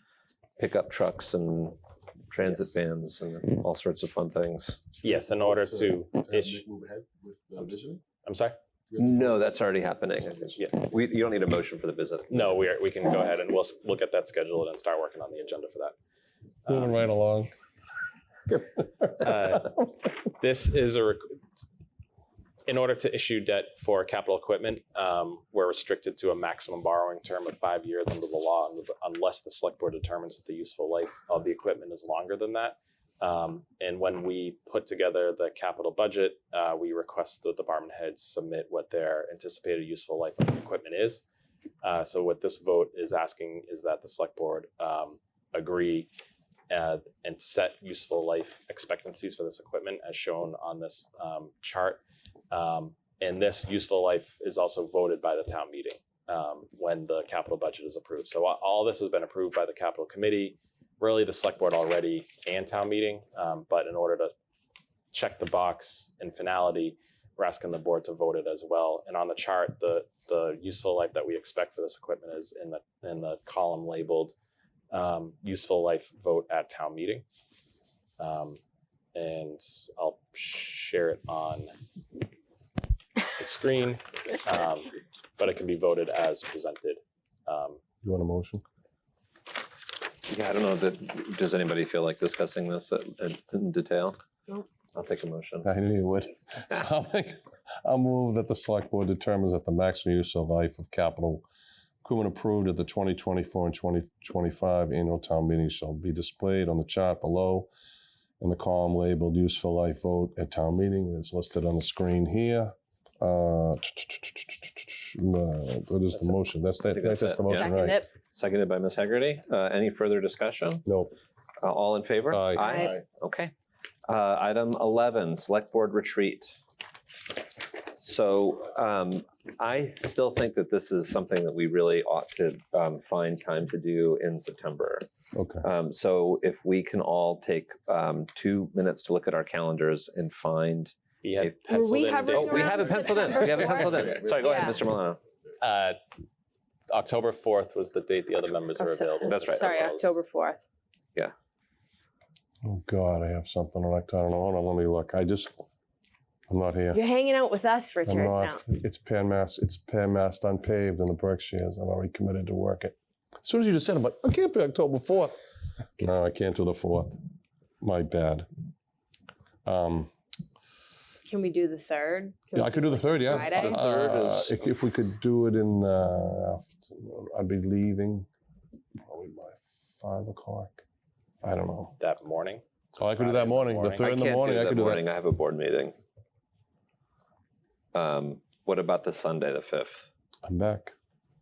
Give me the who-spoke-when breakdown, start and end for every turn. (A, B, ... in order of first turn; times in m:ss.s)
0:00.6-0:01.8 A
0:02.3-0:04.8 A
0:05.0-0:06.6 B
0:05.3-0:08.0 C
0:08.2-0:08.6 B
0:08.9-0:09.6 C
0:09.0-0:12.6 A
0:12.3-0:16.0 B
0:16.6-0:17.1 B
0:16.7-0:17.5 D
0:19.2-0:21.4 B
0:22.7-0:41.2 B
0:41.8-0:46.1 B
0:46.7-1:04.3 B
1:05.1-1:14.3 B
1:14.9-1:17.2 B
1:18.2-1:18.6 B
1:19.2-1:21.7 B
1:23.4-1:27.8 B
1:28.0-1:28.6 D
1:30.3-1:34.2 A
1:34.9-1:35.7 A
1:35.6-1:41.4 D
1:42.0-1:47.7 D
1:48.4-1:58.0 D
1:56.9-2:00.8 A
1:57.5-1:58.1 E
2:00.8-2:01.1 D
2:01.6-2:03.5 A
2:02.3-2:02.8 D
2:02.6-2:02.9 E
2:02.8-2:03.0 C
2:04.1-2:06.6 A
2:08.0-2:15.0 A
2:15.3-2:15.6 D
2:15.6-2:21.6 A
2:21.2-2:23.3 B
2:21.7-2:24.8 E
2:22.3-2:25.2 A
2:23.2-2:24.9 C
2:25.6-2:26.0 B
2:26.9-2:30.2 B
2:28.8-2:30.6 E
2:29.2-2:29.9 A
2:32.6-2:35.6 D
2:36.5-2:37.0 D
2:36.9-2:38.6 E
2:38.1-2:45.4 D
2:46.0-2:47.2 D
2:47.8-2:48.5 D
2:49.6-2:50.1 D
2:51.3-2:53.8 E
2:52.5-2:58.3 D
2:53.4-2:54.8 A
2:59.0-3:00.8 D
3:01.4-3:02.0 D
3:02.0-3:04.1 B
3:03.0-3:05.0 D
3:04.0-3:06.0 A
3:07.9-3:10.1 A
3:10.4-3:11.0 D